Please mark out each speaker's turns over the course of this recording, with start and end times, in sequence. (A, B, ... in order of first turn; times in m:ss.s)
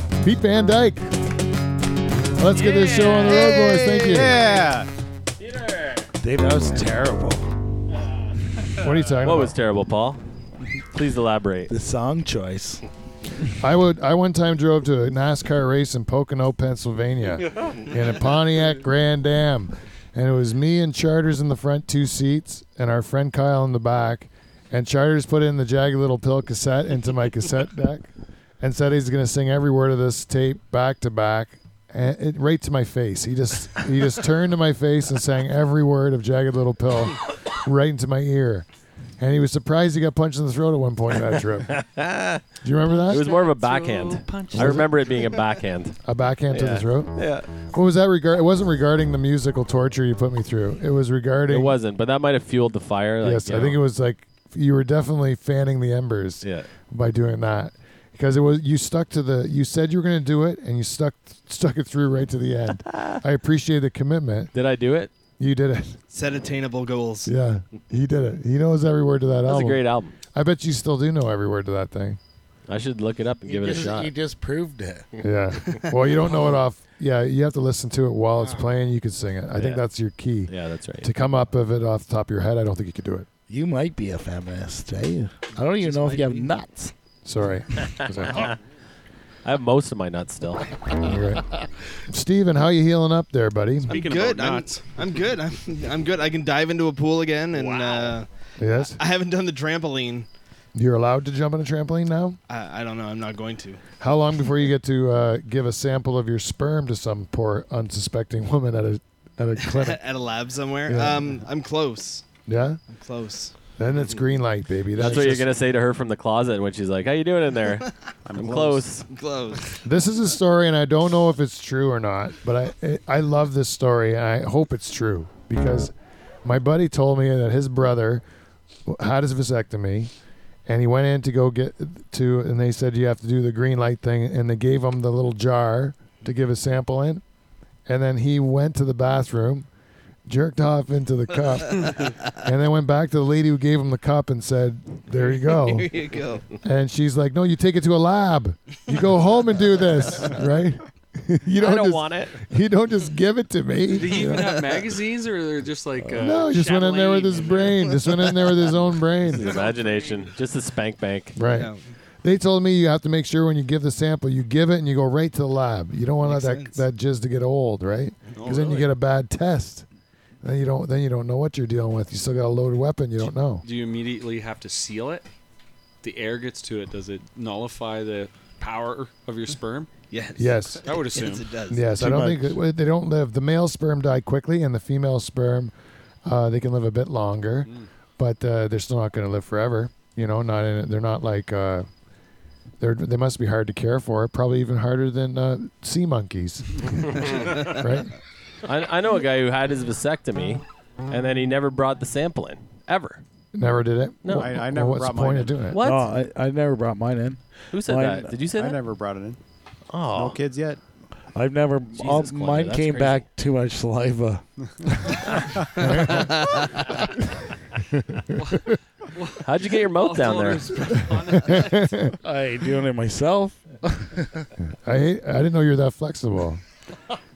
0:00.2-0:01.1 A
0:02.4-0:04.4 A
0:02.6-0:03.7 B
0:03.4-0:04.9 C
0:06.2-0:07.5 D
0:08.8-0:09.5 A
0:09.2-0:10.2 E
0:10.9-0:11.7 E
0:11.7-0:12.8 D
0:13.6-0:28.1 A
0:28.6-0:38.6 A
0:39.2-0:41.8 A
0:41.7-0:42.4 E
0:42.6-0:43.2 A
0:43.1-0:44.9 B
0:43.1-0:46.0 E
0:44.5-0:44.9 A
0:46.0-0:51.7 A
0:46.5-0:47.5 E
0:51.5-0:53.8 E
0:53.2-1:04.5 A
0:56.4-0:56.7 E
1:02.9-1:03.2 E
1:04.5-1:05.1 E
1:05.4-1:06.0 A
1:06.1-1:07.3 F
1:07.2-1:12.2 A
1:09.4-1:10.1 E
1:12.7-1:14.1 E
1:13.4-1:15.1 D
1:15.2-1:15.7 E
1:15.2-1:23.3 A
1:19.6-1:19.8 E
1:20.5-1:21.1 E
1:23.5-1:26.9 D
1:27.2-1:28.5 A
1:27.9-1:28.6 E
1:29.4-1:30.7 E
1:31.0-1:31.5 A
1:32.1-1:34.0 A
1:33.9-1:34.9 B
1:33.9-1:40.3 F
1:37.6-1:38.1 B
1:38.6-1:39.0 A
1:40.7-1:42.4 A
1:42.5-1:43.8 F
1:44.0-1:50.0 A
1:49.6-1:52.2 F
1:50.9-1:51.4 A
1:52.4-1:52.8 A
1:52.9-1:53.5 F
1:53.8-1:55.5 A
1:54.9-1:59.0 E
1:58.3-1:58.8 C
1:59.0-1:59.8 F
1:59.8-2:05.9 A
2:06.4-2:08.2 A
2:08.8-2:10.1 A
2:10.7-2:17.2 A
2:17.9-2:19.6 A
2:20.2-2:25.9 A
2:25.3-2:26.4 F
2:26.6-2:34.5 A
2:31.6-2:32.4 E
2:33.9-2:38.5 B
2:34.3-2:34.8 F
2:36.2-2:39.5 A
2:39.3-2:41.4 E
2:41.3-2:41.7 A
2:41.4-2:41.9 F
2:42.2-2:49.8 A
2:46.2-2:46.8 F
2:48.4-2:48.9 B
2:50.4-2:53.6 A
2:53.6-2:55.3 B
2:56.0-2:59.9 B
3:00.1-3:02.0 F
3:00.4-3:00.8 A
3:00.8-3:01.5 B
3:01.7-3:05.7 A
3:01.9-3:02.6 D
3:06.2-3:11.9 A
3:12.8-3:18.1 A
3:18.6-3:23.2 E
3:23.5-3:25.8 A
3:24.2-3:24.6 E
3:24.3-3:25.7 C
3:25.7-3:26.1 E
3:25.8-3:28.4 D
3:27.7-3:28.8 E
3:28.6-3:29.4 C
3:29.9-3:30.4 E
3:30.1-3:30.8 C
3:31.3-3:35.6 D
3:32.0-3:33.2 E
3:35.8-3:36.4 A
3:37.9-3:38.3 A
3:38.3-3:41.9 B
3:39.4-3:40.7 E
3:41.3-3:42.1 A
3:42.1-3:44.5 D
3:44.8-3:46.6 A